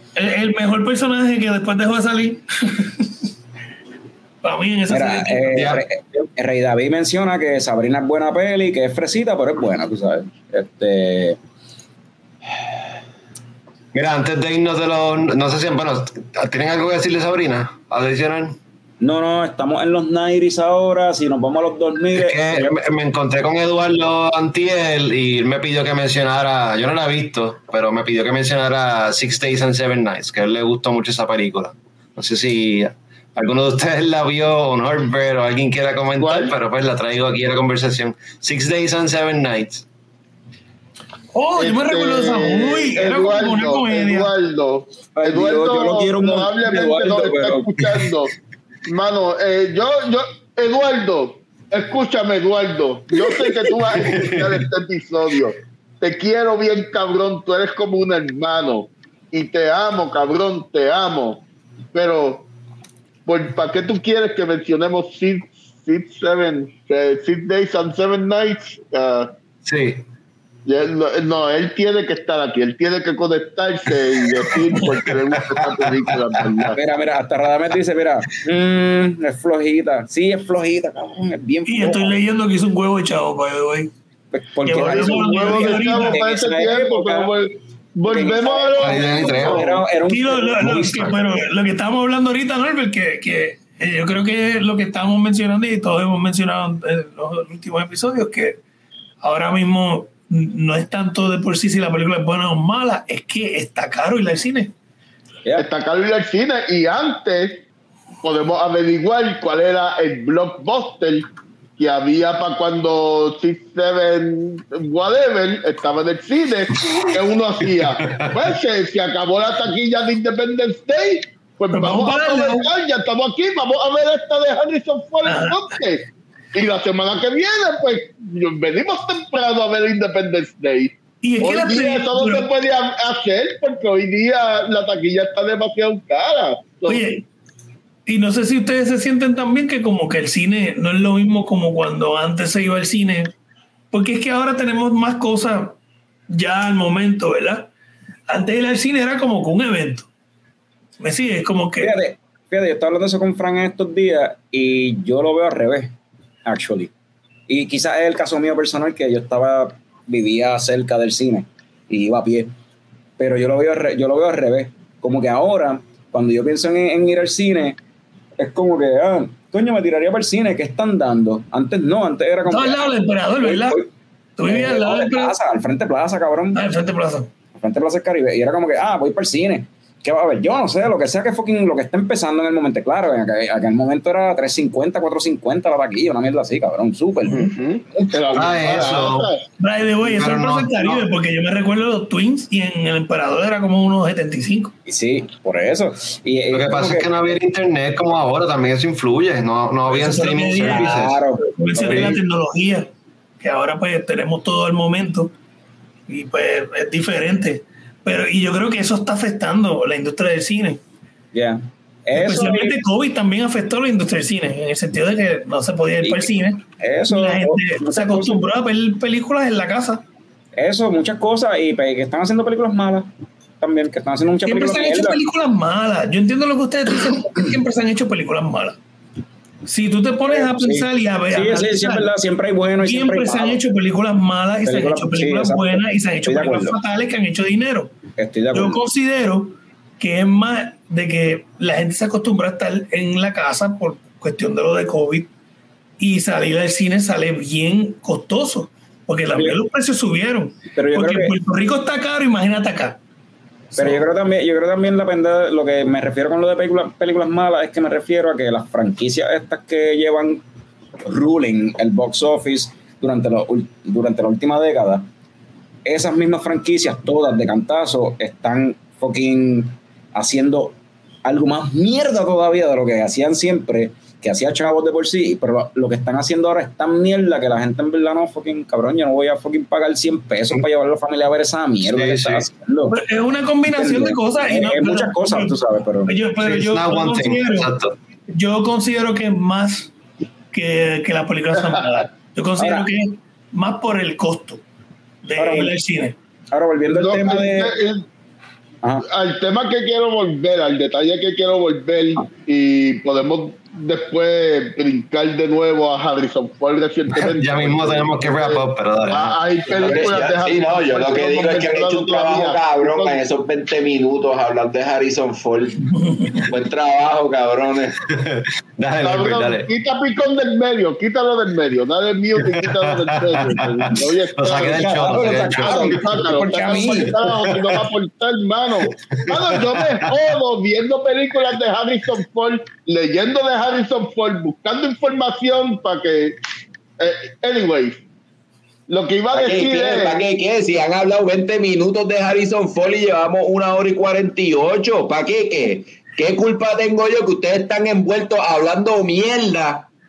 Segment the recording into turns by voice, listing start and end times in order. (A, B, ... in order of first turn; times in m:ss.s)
0:00.2-0:03.1 A
0:04.4-0:05.7 A
0:04.9-0:11.4 B
0:05.5-0:05.8 C
0:13.9-0:18.6 C
0:19.0-0:22.7 B
0:22.1-0:39.8 C
0:36.2-0:36.5 D
0:41.3-0:44.3 A
0:41.6-0:48.3 D
0:45.2-0:47.8 B
0:48.8-1:02.4 D
0:54.0-0:54.5 C
1:03.2-1:09.3 D
1:09.6-1:10.0 C
1:10.6-1:16.8 D
1:15.4-1:15.9 C
1:16.7-1:22.2 B
1:21.6-1:23.9 A
1:24.3-1:27.3 B
1:24.6-1:26.2 A
1:24.9-1:29.7 D
1:28.1-1:31.2 B
1:28.8-1:29.7 C
1:30.0-1:38.6 A
1:39.2-1:44.7 A
1:45.6-1:47.6 D
1:48.2-1:51.3 D
1:51.8-2:17.0 D
1:57.8-1:58.4 C
2:01.7-2:02.7 A
2:05.2-2:05.6 A
2:11.2-2:12.5 A
2:16.8-2:17.2 A
2:18.0-2:23.3 A
2:23.9-2:25.8 A
2:26.3-2:27.7 A
2:28.3-2:30.1 A
2:31.0-2:31.9 A
2:31.8-2:36.9 B
2:37.5-2:42.5 B
2:43.2-2:47.8 B
2:48.4-2:53.9 B
2:52.4-2:53.8 A
2:54.4-2:55.3 A
2:54.4-2:56.6 B
2:56.5-2:57.3 A
2:57.6-3:07.5 B
3:07.2-3:09.4 D
3:08.3-3:09.3 C
3:09.6-3:14.7 A
3:10.0-3:11.1 C
3:14.8-3:17.4 B
3:16.5-3:21.2 C
3:19.9-3:25.3 A
3:20.6-3:22.2 B
3:26.1-3:30.8 A
3:31.3-3:32.8 B
3:32.1-3:40.0 A
3:36.0-3:38.4 B
3:40.6-3:45.2 B
3:44.4-3:48.8 A
3:49.6-3:52.1 A
3:50.2-3:53.6 B
3:52.8-3:58.0 A
3:54.6-3:56.8 B
3:58.2-3:58.8 B
3:58.5-4:05.3 A
4:06.0-4:13.0 A
4:10.7-4:11.3 B
4:13.7-4:14.0 A
4:13.8-4:20.4 B
4:21.0-4:25.0 B
4:25.8-4:43.0 B
4:41.9-4:42.4 C
4:42.9-4:47.7 A
4:43.7-4:46.1 B
4:46.4-4:47.9 C
4:48.3-4:49.9 A
4:50.5-4:54.6 A
4:52.6-4:52.8 B
4:55.2-4:56.1 A
4:55.3-4:55.7 B
4:56.5-4:57.8 B
4:56.9-4:58.0 D
4:59.0-5:13.2 D
5:07.1-5:09.4 C
5:09.7-5:18.0 E
5:15.9-5:16.4 A
5:18.1-5:19.7 C
5:19.0-5:36.4 D
5:22.4-5:26.2 C
5:24.7-5:27.3 B
5:27.4-5:27.8 C
5:28.9-5:30.2 C
5:37.0-5:38.0 D
5:38.9-5:40.2 D
5:39.3-5:49.8 E